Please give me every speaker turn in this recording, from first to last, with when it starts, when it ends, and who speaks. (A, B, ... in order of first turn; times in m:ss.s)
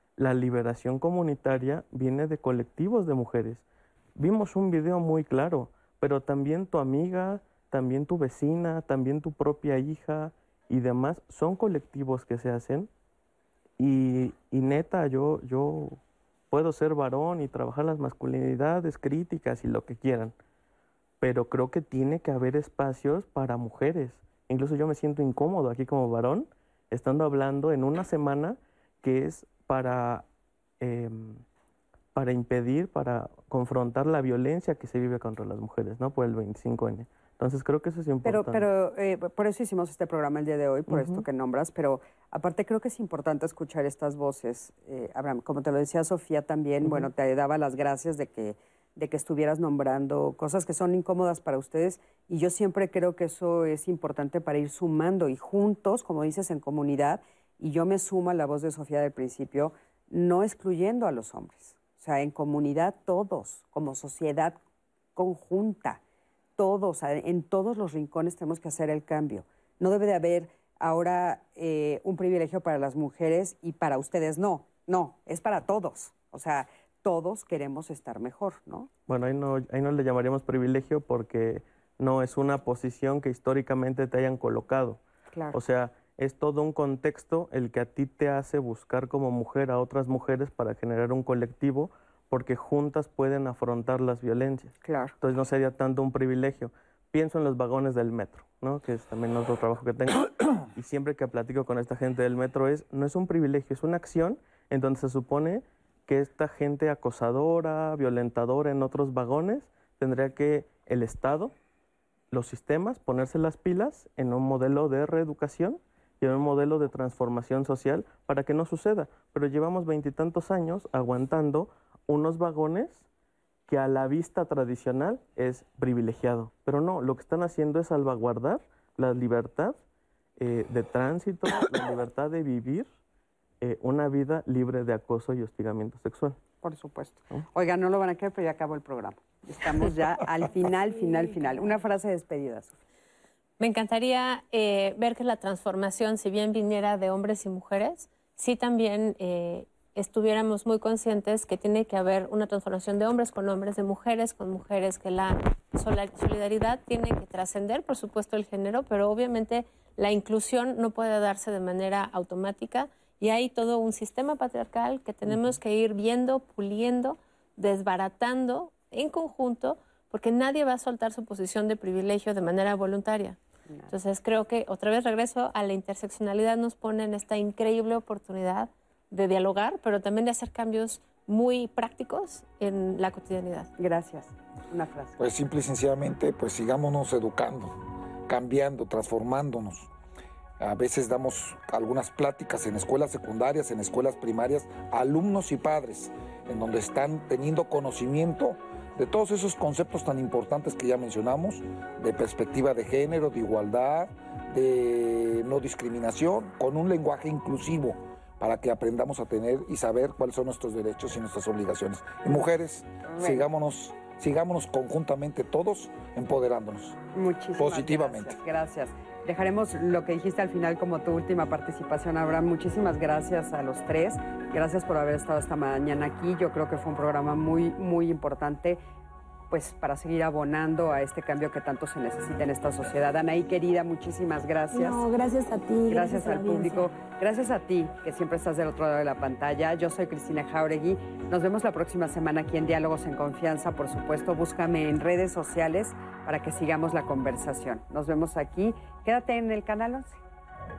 0:00.2-0:03.6 A
0:04.2-0:12.9 A
0:13.8-0:16.0 A
0:16.5-0:20.3 A
0:21.2-0:30.2 A
0:30.8-0:31.4 A
0:32.1-0:38.6 A
0:38.2-1:04.6 B
0:40.9-0:41.2 A
0:46.8-0:47.1 A
1:05.1-1:06.0 B
1:06.6-1:18.9 B
1:19.1-1:25.0 A
1:25.3-1:25.6 B
1:25.5-1:51.5 A
1:34.8-1:35.1 B
1:52.3-2:03.0 A
2:03.7-2:09.8 A
2:10.4-2:12.9 A
2:13.6-2:16.4 A
2:16.6-2:22.8 B
2:23.6-2:53.4 C
2:53.9-3:03.7 C
3:03.8-3:05.2 B
3:05.2-3:09.9 D
3:10.6-3:37.0 D
3:33.1-3:33.4 B
3:37.1-3:48.8 B
3:37.6-3:38.4 D
3:49.5-3:55.0 B
3:54.7-3:56.9 E
3:55.9-4:10.2 B